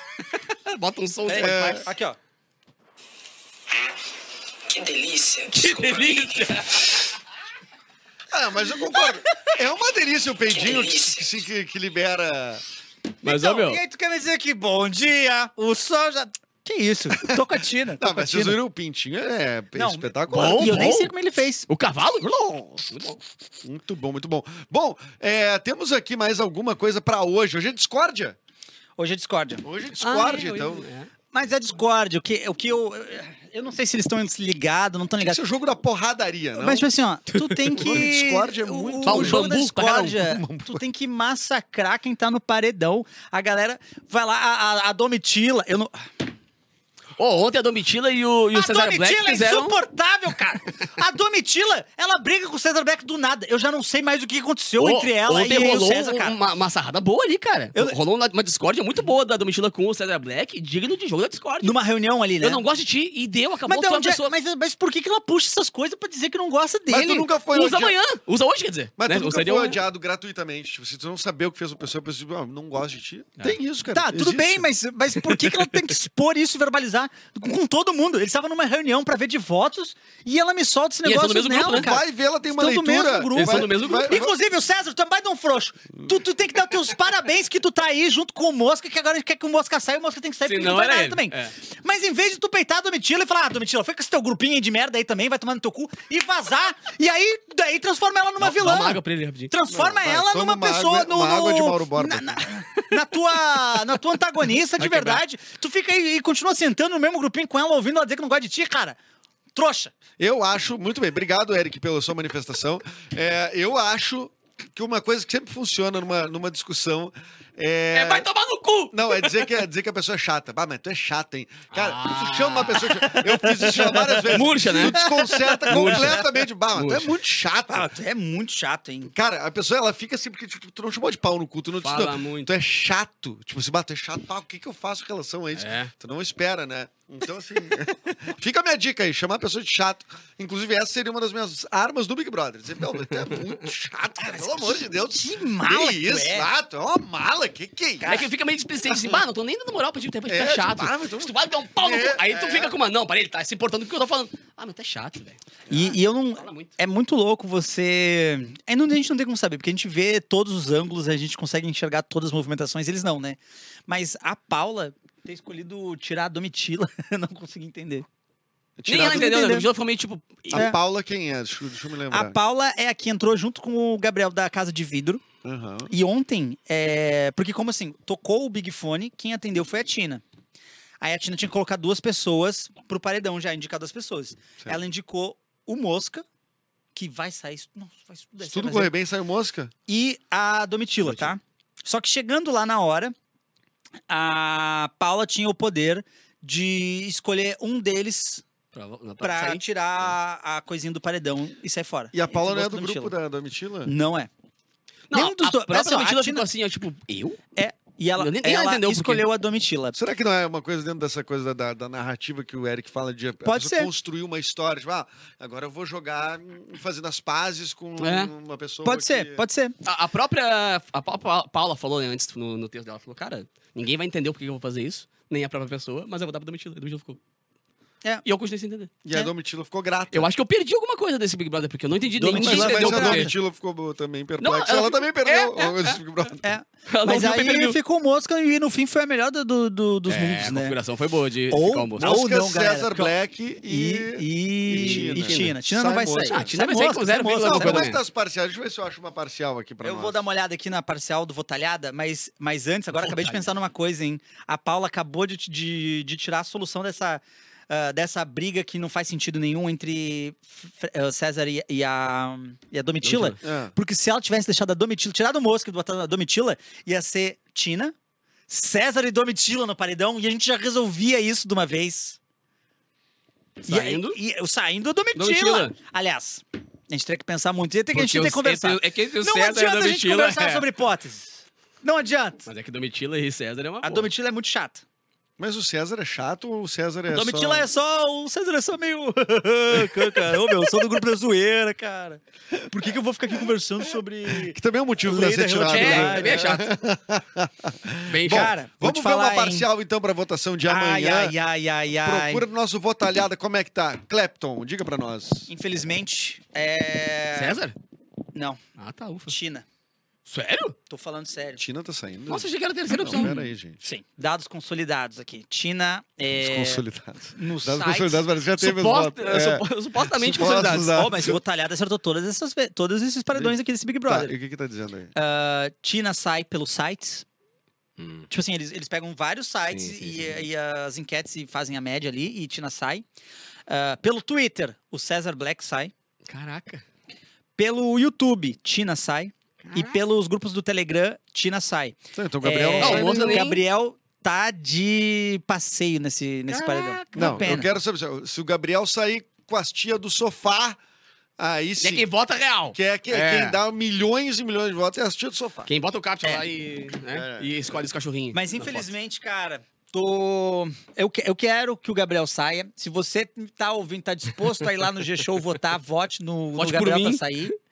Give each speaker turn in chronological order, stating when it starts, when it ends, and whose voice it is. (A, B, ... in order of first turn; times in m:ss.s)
0:00.5-0:01.8 A
0:01.3-0:02.2 B
0:01.4-0:01.8 C
0:05.3-0:07.0 A
0:08.3-0:12.6 C
0:13.2-0:13.8 A
0:13.2-0:18.6 B
0:17.1-0:17.4 C
0:18.0-0:21.0 C
0:19.8-0:21.7 B
0:20.3-0:21.1 A
0:21.7-0:22.3 A
0:22.2-0:22.9 C
0:22.9-0:23.2 A
0:23.6-0:28.4 C
0:29.0-0:29.6 B
0:29.6-0:30.9 C
0:30.0-0:31.1 A
0:31.3-0:35.4 B
0:35.2-0:36.9 C
0:36.6-0:46.1 B
0:37.3-0:38.0 A
0:37.8-0:40.8 C
0:39.1-0:40.1 A
0:47.2-0:49.8 A
0:48.5-0:56.4 B
0:54.8-1:01.8 A
1:01.6-1:02.6 B
1:02.4-1:04.3 A
1:03.7-1:07.3 B
1:06.9-1:08.0 C
1:07.5-1:09.8 A
1:09.0-1:14.6 C
1:13.9-1:39.0 B
1:15.3-1:15.7 A
1:21.0-1:21.9 A
1:21.7-1:24.3 C
1:23.3-1:24.2 A
1:30.5-1:31.5 A
1:38.4-1:39.5 A
1:39.5-1:49.0 B
1:39.7-1:42.5 C
1:44.8-1:45.2 A
1:49.6-1:49.9 B
1:50.2-1:58.3 C
1:57.9-1:59.6 A
1:58.9-2:07.9 C
2:01.7-2:03.3 A
2:03.4-2:04.3 B
2:04.3-2:05.0 A
2:04.8-2:06.1 B
2:05.7-2:07.1 A
2:07.7-2:09.1 B
2:09.1-2:28.2 C
2:11.8-2:12.5 A
2:15.6-2:15.9 A
2:23.1-2:23.5 A
2:24.3-2:26.5 B
2:28.0-2:28.3 B
2:28.0-2:35.8 A
2:28.9-2:29.2 C
2:30.3-2:32.8 C
2:35.7-2:48.1 B
2:36.4-2:36.7 A
2:48.8-2:49.6 C
2:48.9-2:49.7 B
2:48.9-2:50.7 A
2:50.5-2:52.4 C
2:52.1-2:55.2 B
2:55.4-2:55.9 C
2:55.9-3:00.2 B
3:01.0-3:06.2 B
3:06.9-3:08.9 B
3:08.4-3:09.7 C
3:09.9-3:13.1 B
3:11.1-3:11.3 A
3:14.1-3:18.4 B
3:18.8-3:20.1 A
3:19.2-3:23.1 B
3:22.1-3:23.9 C
3:23.8-3:24.3 B
3:25.1-3:27.4 A
3:25.1-3:26.4 B
3:27.6-3:30.0 B
3:28.2-3:29.2 A
3:29.9-3:39.4 C
3:33.4-3:33.9 B
3:38.0-3:38.3 A
3:38.8-3:39.8 B
3:39.8-3:47.2 A
3:48.2-3:48.9 A
3:49.0-3:50.3 C
3:50.1-3:53.3 A
3:52.2-3:53.3 B
3:52.3-3:56.5 C
3:54.4-3:56.0 A
3:56.4-4:00.8 B
3:56.9-3:57.8 A
4:00.1-4:02.1 A
4:01.5-4:03.1 B
4:02.0-4:06.5 C
4:03.7-4:07.9 B
4:04.8-4:05.6 A
4:06.2-4:08.0 A
4:07.4-4:10.2 C
4:09.8-4:27.9 B
4:13.0-4:13.4 A
4:23.0-4:23.4 A
4:23.4-4:23.7 C
4:28.5-4:32.2 B
4:33.6-4:34.2 A
4:33.6-4:42.5 B
4:35.2-4:35.7 A
4:37.9-4:40.6 A
4:42.5-4:44.1 A
4:43.8-4:44.8 B
4:45.4-4:47.7 C
4:47.1-4:56.6 B
4:49.8-4:50.3 A
4:54.4-5:01.4 C
4:55.6-4:56.7 A
4:58.1-4:58.5 A
4:58.2-4:59.7 B
5:00.7-5:02.4 B
5:01.9-5:05.5 C
5:05.5-5:07.6 B
5:07.4-5:07.8 A
5:08.4-5:08.6 B
5:08.8-5:09.3 A
5:09.3-5:09.6 B
5:10.3-5:10.8 A
5:10.9-5:11.6 B
5:11.6-5:13.8 C
5:12.3-5:13.5 A
5:13.8-5:16.8 B
5:16.4-5:21.4 C
5:17.4-5:18.3 B
5:18.6-5:21.0 A
5:20.9-5:24.4 B
5:24.1-5:25.1 C
5:25.1-5:27.2 B
5:28.0-5:28.3 A
5:28.3-5:33.0 B
5:29.7-5:30.4 A
5:33.7-5:35.9 B
5:36.3-5:36.8 A
5:37.6-5:47.7 B
5:39.6-5:40.0 A
5:42.1-5:43.5 C
5:42.8-5:43.6 A
5:46.5-5:47.7 A
5:47.1-5:50.8 C
5:51.4-5:52.1 C
5:51.8-5:53.6 A
5:52.7-5:55.7 C
5:55.7-5:58.9 A
5:57.1-5:57.5 C
5:58.3-6:07.6 B
6:06.6-6:07.4 A